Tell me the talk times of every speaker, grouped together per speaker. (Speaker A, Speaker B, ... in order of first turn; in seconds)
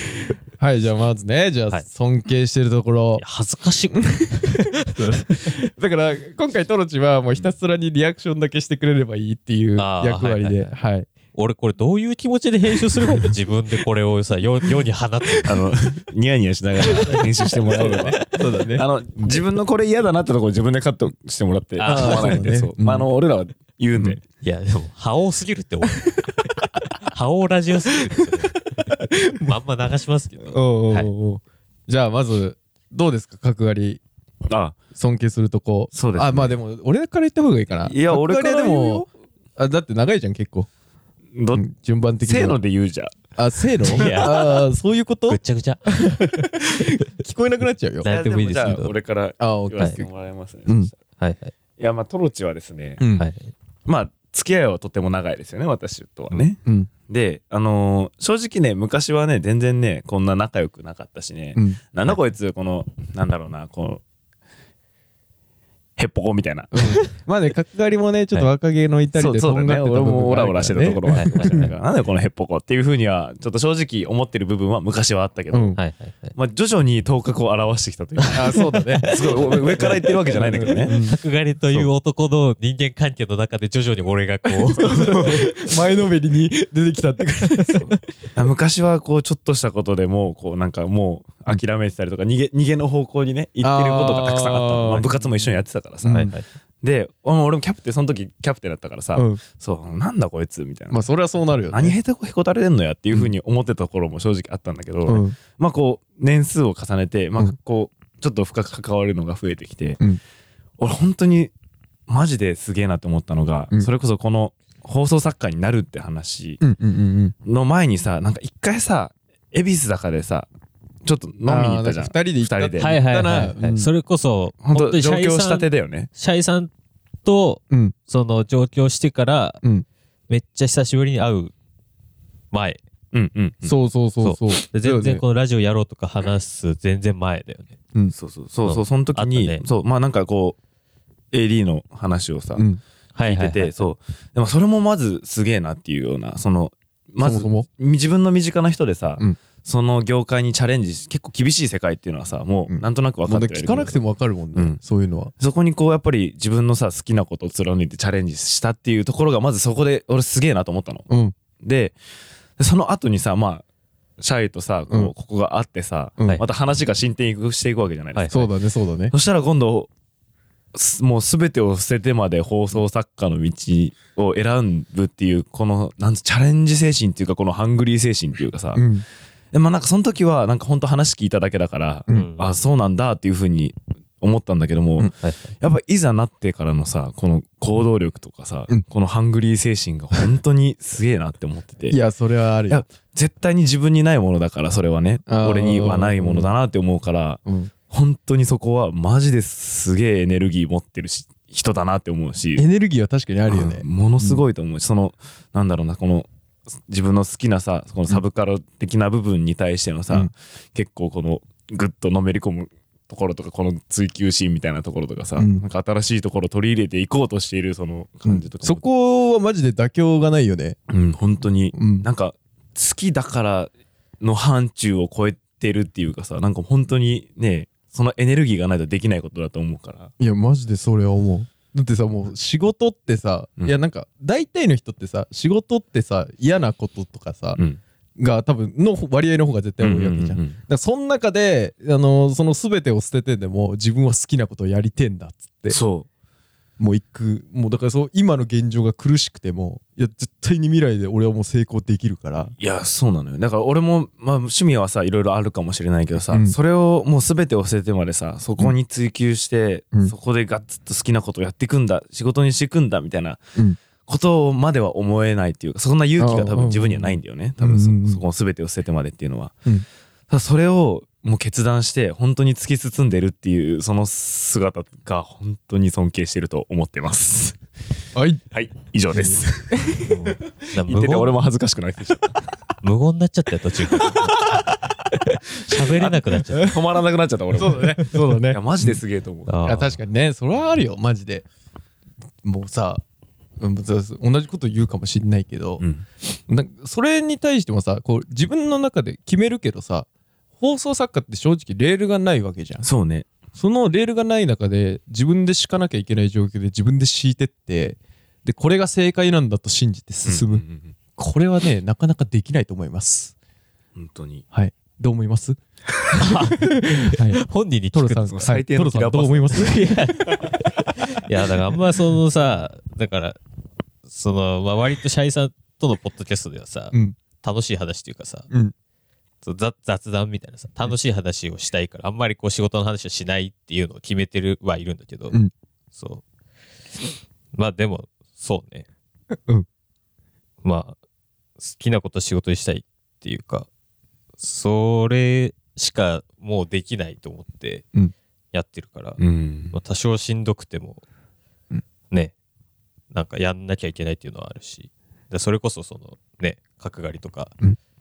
Speaker A: 0.6-3.2, 3.9-11.1, 12.9-13.3, 17.6-19.4, 21.8-23.1, 28.8-29.6, 30.5-34.0, 35.0-40.7, 41.5-42.6, 43.4-48.1, 49.4-50.1, 53.0-53.3, 56.6-56.9, 61.5-61.8, 66.7-71.7, 75.5-75.8, 78.3-81.2, 84.5-88.0, 93.6-95.4, 96.0-96.3, 99.1-99.4, 100.9-102.0, 105.1-105.4, 116.6-117.3, 121.5-123.9, 127.7-128.0, 133.6-135.2, 147.2-147.7, 152.7-155.3, 161.1-161.3, 168.3-169.1, 178.8-179.0, 191.9-192.8, 195.3-196.5, 197.5-197.7, 202.6-204.4, 215.4-215.6, 218.3-220.8, 221.8-222.1, 230.2-237.6, 238.2-245.8, 246.8-252.5, 256.3-256.6, 266.2-268.2, 278.1-278.4, 279.1-280.1, 287.6-289.0, 289.6-291.4, 292.4-293.0, 293.6-300.1, 300.6-302.9, 303.5-310.6, 311.1-313.3, 314.5-315.6, 316.2-317.4, 317.9-320.0
Speaker B: 3.2-5.5, 9.8-10.7, 11.3-15.6, 21.8-22.5, 24.4-26.3, 27.0-31.1, 43.8-44.6, 45.3-46.9, 48.0-48.9, 51.2-51.5, 53.1-53.5, 71.1-71.7, 75.8-76.4, 78.9-85.7, 96.1-96.5, 122.8-126.7, 127.2-129.6, 130.3-131.5, 132.5-132.8, 134.2-137.8, 138.6-139.6, 143.1-143.8, 168.1-168.5, 182.1-182.6, 185.2-185.5, 280.0-281.4, 282.8-284.4, 285.6-286.8, 289.5-289.9, 316.2-316.6, 317.1-318.3, 319.5-323.4, 324.1-328.5, 329.4-335.4, 335.9-336.2, 337.5-338.9, 340.6-341.0, 341.6-343.7, 344.4-347.9, 348.5-349.2, 349.7-351.0, 353.1-357.5
Speaker C: 15.4-24.2, 34.5-34.8, 35.9-36.5, 37.9-39.1, 41.3-41.6, 42.2-43.1, 43.9-44.3, 48.0-51.0, 51.8-53.0, 53.9-64.0, 66.0-67.0, 69.1-75.8, 76.3-81.0, 88.4-101.0, 101.7-110.0, 110.8-111.5, 112.1-116.6, 117.4-120.5, 121.0-122.9, 124.6-126.1, 133.1-133.8, 138.1-140.6, 141.3-142.6, 143.2-154.0, 155.4-161.1, 161.6-162.0, 162.6-163.7, 164.2-168.5, 169.1-169.9, 170.7-178.8, 179.5-192.0, 192.7-202.6, 203.5-206.3, 206.9-218.8, 220.9-230.1, 239.8-240.6, 245.7-246.1, 252.6-263.4, 264.1-269.6, 270.3-277.6, 278.5-279.7, 280.8-282.3, 285.7-289.5, 295.8-296.0, 302.8-303.3, 310.3-310.9, 314.0-314.4, 318.3-319.8, 349.2-349.8